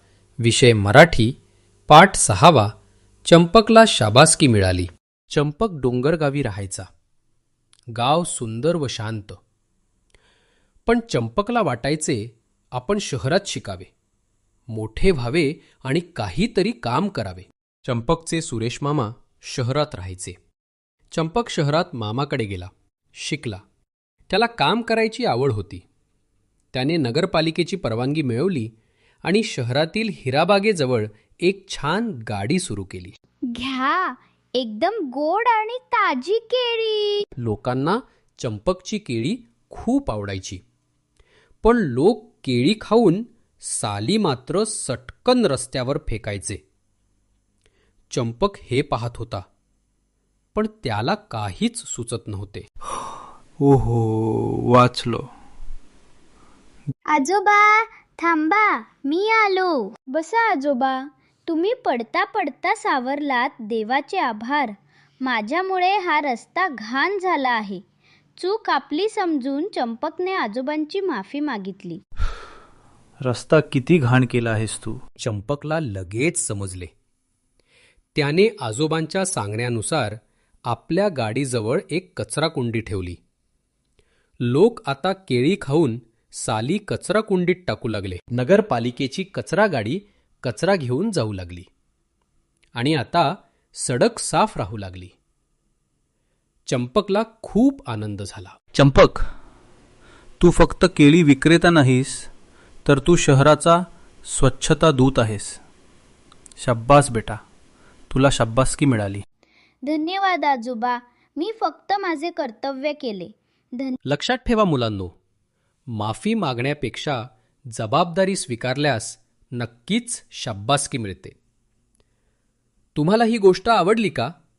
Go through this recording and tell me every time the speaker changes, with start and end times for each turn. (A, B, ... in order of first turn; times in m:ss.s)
0:00.4-0:01.3 A
0:01.9-0:02.7 A
0:03.3-0:06.9 A
0:07.9-0:09.4 A
0:10.8-0:13.9 A
0:14.7-0:20.4 A
0:21.1-0:23.6 A
0:24.3-0:25.8 A
0:26.7-0:28.7 A
0:29.2-0:33.1 A
0:33.5-0:37.2 B
0:37.4-0:40.6 A
0:41.6-0:46.6 A
0:48.1-0:49.4 A
0:50.5-0:52.6 A
0:53.6-0:55.3 C
0:57.1-1:07.8 B
1:08.4-1:12.0 B
1:13.2-1:15.0 C
1:15.2-1:16.9 A
1:18.1-1:23.2 A
1:24.4-1:31.7 A
1:32.8-1:35.1 A
1:36.7-1:38.5 A
1:38.7-1:39.2 C
1:40.4-1:42.3 C
1:42.8-1:45.6 C
1:46.6-1:47.4 C
1:48.1-1:49.2 C
1:49.8-1:54.0 B
1:54.1-1:55.1 A
1:55.9-1:57.2 A
1:57.7-2:01.3 A
2:02.9-2:04.3 A